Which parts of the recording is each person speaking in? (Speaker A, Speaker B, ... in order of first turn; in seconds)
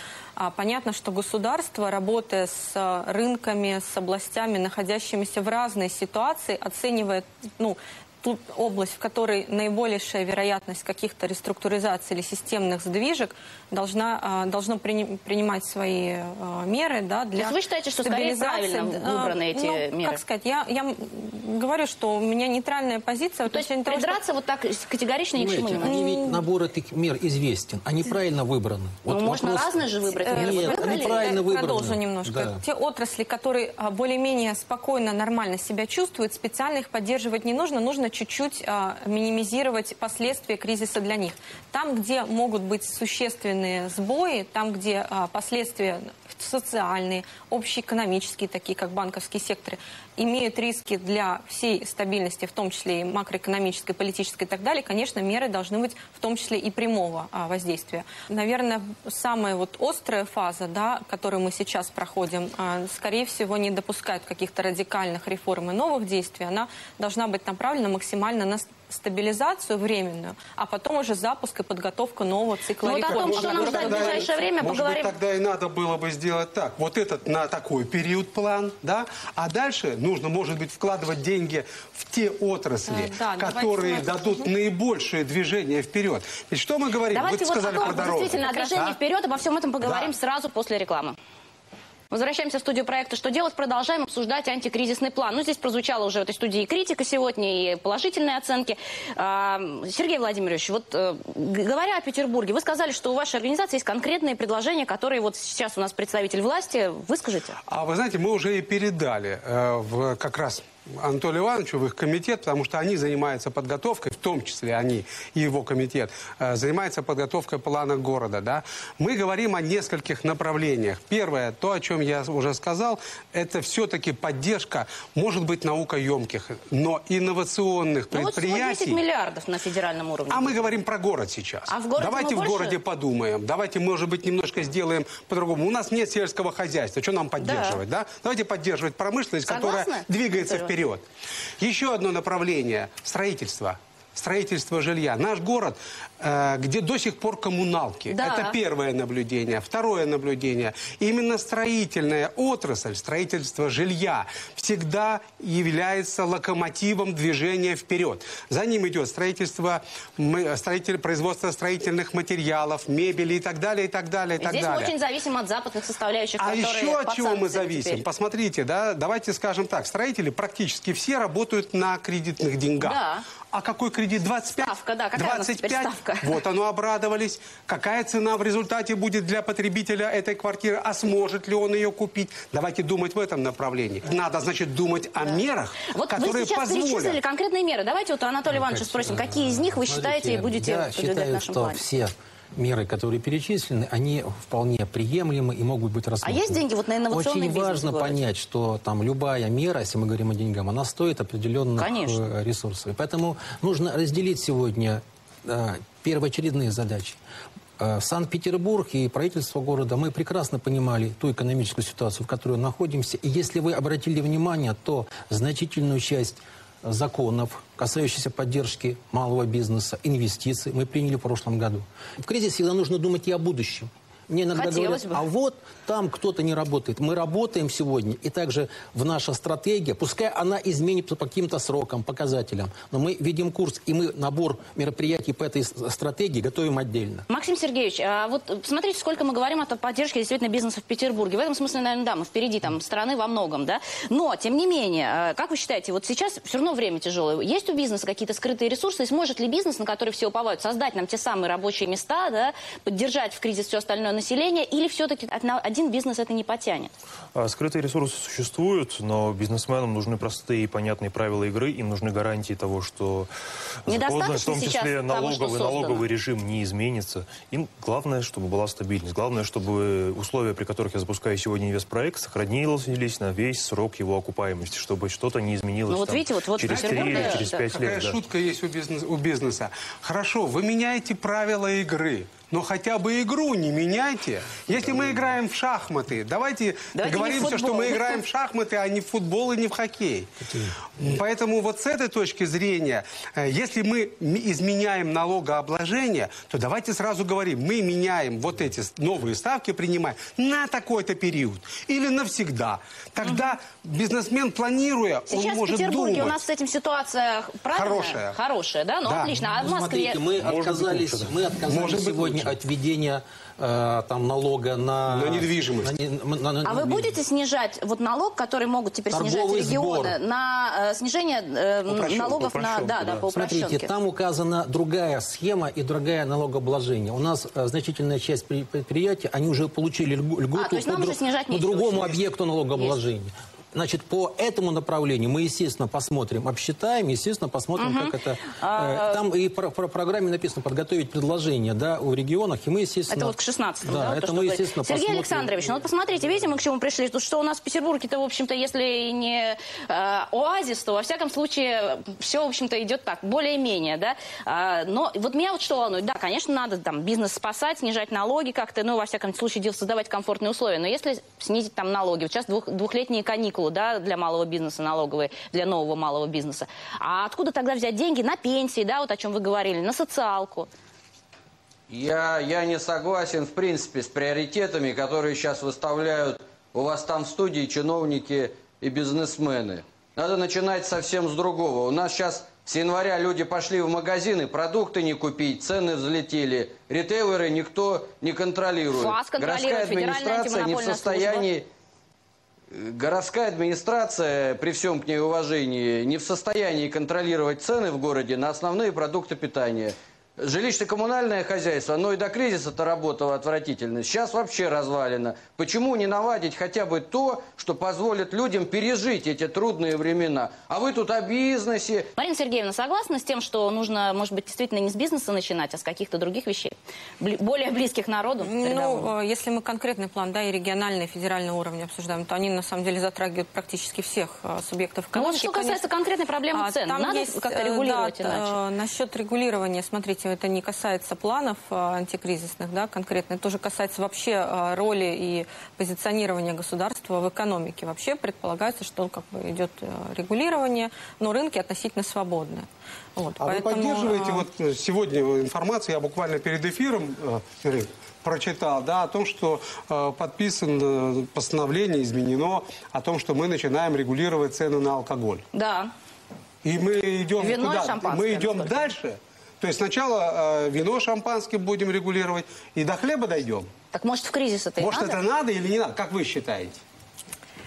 Speaker A: 0.4-24.2, 25.9-26.4, 30.1-74.4, 82.9-84.4, 88.0-88.8, 418.4-425.9, 426.5-444.5
Speaker B: 17.4-20.2, 23.5-26.0, 29.1-31.4, 72.8-75.1, 87.1-91.2, 92.1-107.6, 128.1-130.8, 131.7-132.8, 137.4-137.8, 139.5-140.7, 148.1-148.6, 164.4-168.0, 172.8-173.2, 174.6-176.4, 185.2-191.8, 196.2-198.2, 201.8-202.3, 224.6-225.3, 237.3-256.9, 263.9-266.0, 275.9-277.7, 286.9-288.2, 303.2-303.5, 305.3-310.2, 316.6-323.9, 330.6-333.0, 337.8-339.2, 343.1-370.7, 389.0-391.5, 412.2-419.1, 425.1-428.6, 455.5-455.9, 457.4-458.9, 463.9-465.2
Speaker C: 25.4-32.6, 188.5-207.2, 207.8-237.3, 290.4-290.8, 309.6-317.2, 319.1-320.2, 323.3-345.7
Speaker D: 73.0-89.0, 89.8-90.1, 107.7-129.0, 130.3-141.0, 141.6-164.9, 166.4-173.0, 173.5-187.2, 276.7-290.3, 290.9-306.4, 307.7-308.4, 309.0-309.3, 311.7-312.5, 315.1-315.9, 321.9-322.9, 443.4-455.4, 456.6-463.7, 464.8-466.8
Speaker E: 257.4-263.3, 263.9-278.2, 310.4-311.4, 322.5-323.2
Speaker F: 371.9-391.7, 392.7-412.1